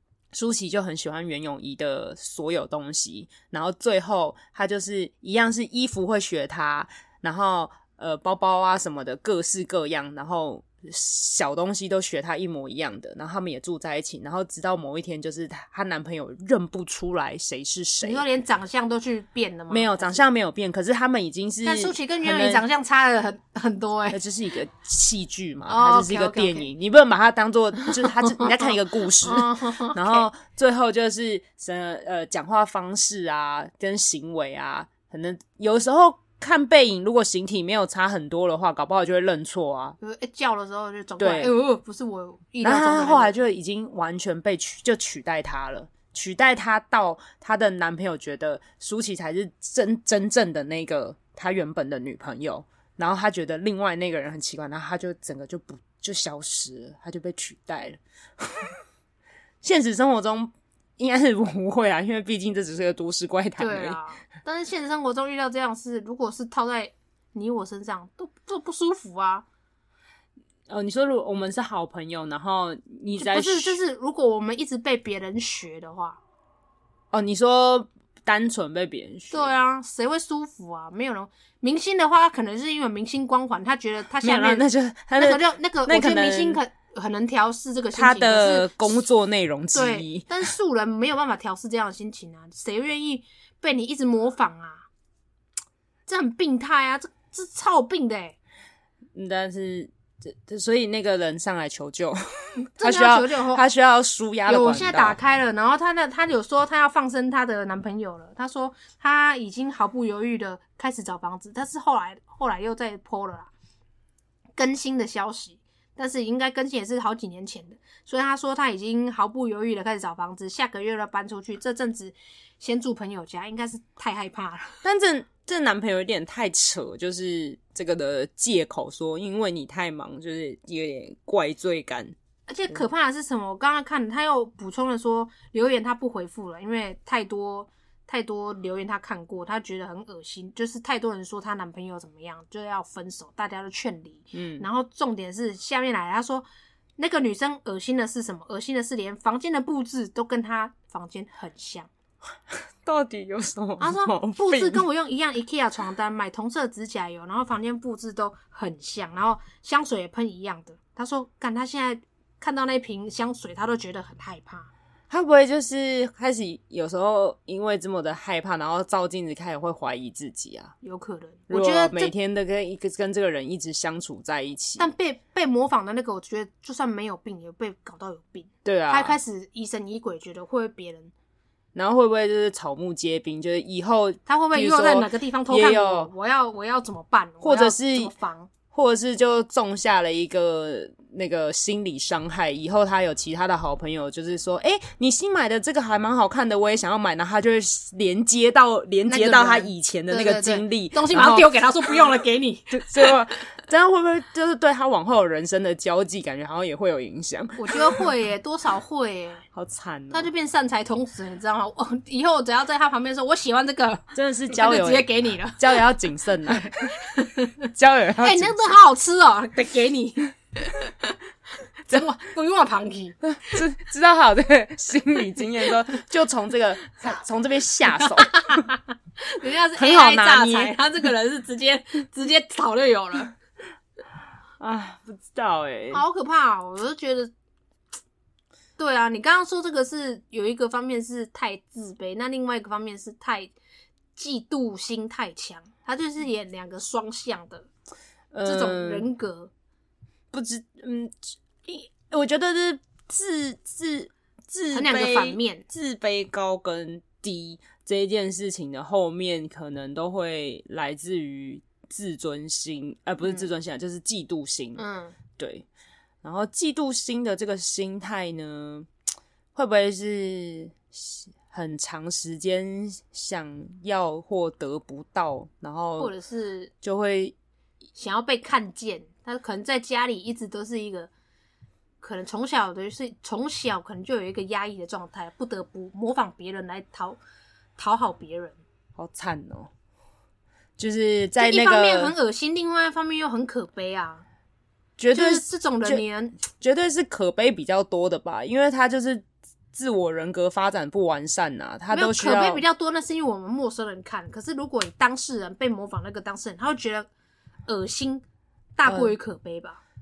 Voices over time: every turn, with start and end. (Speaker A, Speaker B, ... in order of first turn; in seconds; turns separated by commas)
Speaker A: 0.3-18.2, Speaker B: 18.0-20.2, Speaker A: 19.7-22.6, Speaker B: 21.6-24.2, Speaker A: 24.1-40.0, Speaker B: 25.7-26.7, Speaker B: 28.2-30.3, Speaker B: 40.0-43.3, Speaker A: 41.2-41.5, Speaker A: 42.6-58.8, Speaker A: 59.6-64.0, Speaker B: 63.6-69.5, Speaker A: 70.7-73.8, Speaker B: 73.2-76.2, Speaker A: 77.1-79.5, Speaker B: 79.3-84.7, Speaker A: 84.2-86.6, Speaker B: 85.2-89.0, Speaker A: 87.9-90.4, Speaker B: 89.7-94.9, Speaker B: 96.1-98.4, Speaker A: 99.2-105.2, Speaker B: 102.6-103.6, Speaker B: 104.5-113.5, Speaker B: 114.6-124.8, Speaker A: 124.8-132.2, Speaker B: 132.5-146.5, Speaker A: 144.3-144.7, Speaker B: 147.0-151.9, Speaker A: 152.5-154.8, Speaker B: 153.8-164.7, Speaker A: 165.1-170.7, Speaker B: 170.8-172.1, Speaker A: 171.5-174.9, Speaker B: 174.8-181.1, Speaker A: 178.7-179.2, Speaker A: 181.8-186.1, Speaker B: 184.3-188.5, Speaker A: 187.4-188.1, Speaker A: 188.7-201.6, Speaker B: 199.1-203.1, Speaker A: 202.7-208.1, Speaker B: 207.6-209.4, Speaker A: 209.5-210.3, Speaker B: 210.1-215.9, Speaker A: 214.1-216.9, Speaker B: 216.5-217.7, Speaker A: 217.7-218.7, Speaker B: 218.2-221.2, Speaker B: 221.9-223.6, Speaker A: 223.2-228.6, Speaker B: 228.0-233.3, Speaker A: 229.8-230.8, Speaker A: 234.6-236.0, Speaker B: 235.9-237.3, Speaker B: 238.8-243.5, Speaker B: 244.2-247.7, Speaker A: 248.3-249.1, Speaker B: 248.4-249.5, Speaker A: 250.3-264.8, Speaker B: 254.7-255.7, Speaker B: 264.8-265.2, Speaker A: 265.4-265.7, Speaker A: 266.2-268.9, Speaker A: 269.6-276.1, Speaker B: 276.0-276.7, Speaker A: 276.8-277.3, Speaker B: 278.0-281.1, Speaker B: 282.0-287.2, Speaker B: 287.8-288.6, Speaker A: 289.0-289.7, Speaker A: 290.8-292.1, Speaker B: 291.4-294.2, Speaker A: 295.0-302.6, Speaker B: 295.1-296.4, Speaker B: 301.9-307.1, Speaker B: 307.7-308.2, Speaker B: 308.8-309.8, Speaker A: 308.9-309.1